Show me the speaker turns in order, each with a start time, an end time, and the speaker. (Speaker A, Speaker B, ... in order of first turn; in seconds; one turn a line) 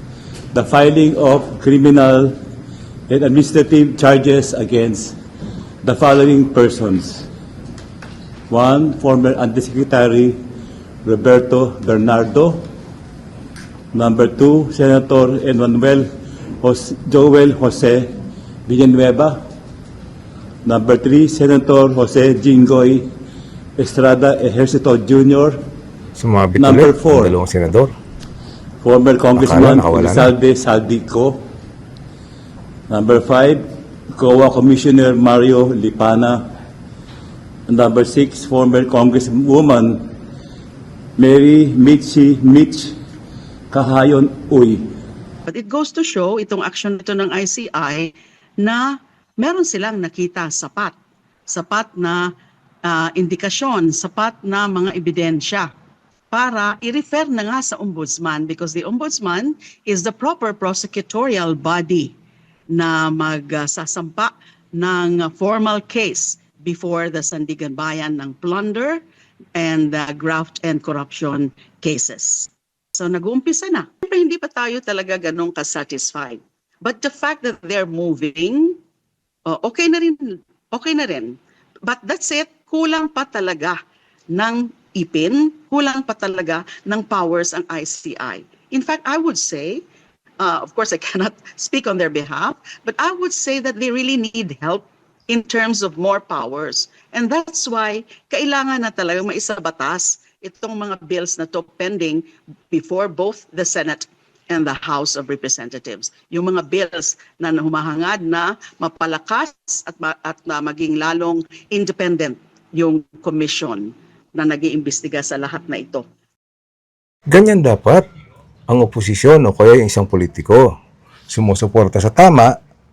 Speaker A: 0.5-2.4
Speaker A: 3.1-5.2
Speaker A: 5.8-7.3
Speaker A: 8.5-10.4
Speaker A: 11.0-12.6
Speaker A: 13.9-16.1
Speaker A: 16.6-18.1
Speaker A: 18.7-19.4
Speaker A: 20.6-23.1
Speaker A: 23.8-25.6
Speaker B: 26.2-27.9
Speaker A: 26.6-27.4
Speaker A: 28.8-31.4
Speaker B: 29.4-30.3
Speaker A: 32.9-36.5
Speaker A: 37.7-40.1
Speaker A: 41.2-42.9
Speaker A: 43.7-44.8
Speaker C: 45.5-50.9
Speaker C: 51.5-52.3
Speaker C: 52.8-55.7
Speaker C: 56.3-62.1
Speaker C: 62.7-69.0
Speaker C: 69.5-78.8
Speaker C: 79.5-83.8
Speaker C: 84.3-89.8
Speaker C: 90.4-116.0
Speaker B: 117.3-118.0
Speaker B: 118.7-120.7
Speaker B: 121.3-122.5